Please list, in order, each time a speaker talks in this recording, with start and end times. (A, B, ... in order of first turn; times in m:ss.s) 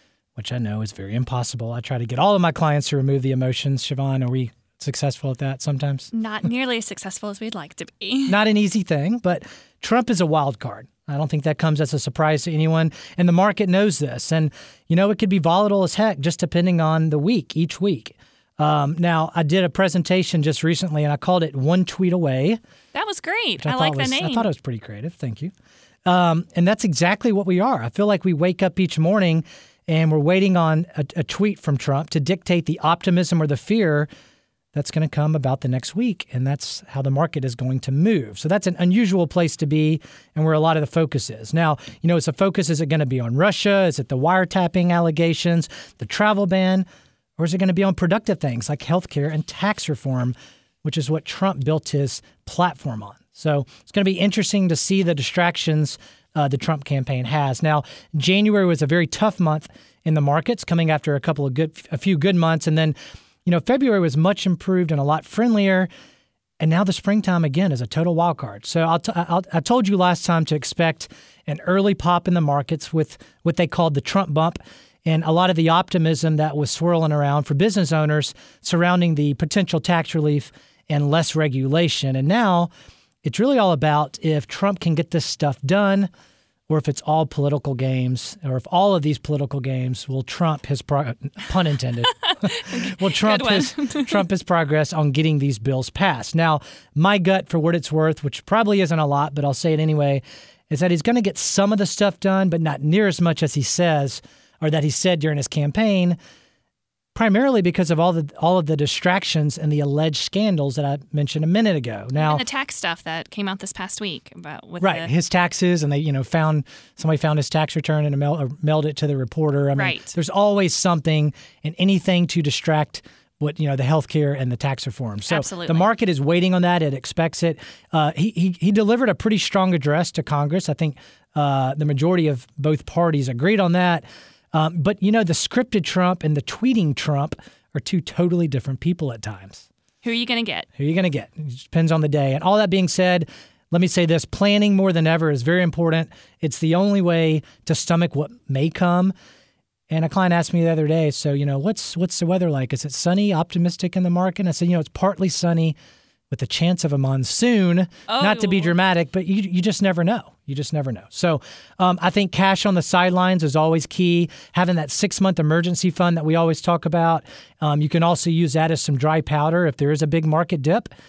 0:00.4-0:06.1 A
0:06.1-0:08.4 B
0:08.3-0:22.6 A
0:22.9-0:24.5 B
0:23.6-0:25.5 A
0:26.0-0:34.1 A
0:34.7-0:46.8 A
0:47.4-1:05.9 A
1:06.6-1:22.7 A
1:23.2-1:26.1 A
1:26.7-1:46.2 A
1:32.5-1:34.2 B
1:47.1-1:52.4 A
1:52.2-1:55.1 B
1:54.8-2:19.6 A
1:59.8-2:00.1 B
2:05.3-2:05.9 B
2:20.0-2:20.7 B
2:20.8-2:29.1 A
2:29.9-2:35.8 A
2:36.3-2:50.9 A
2:38.1-2:38.7 B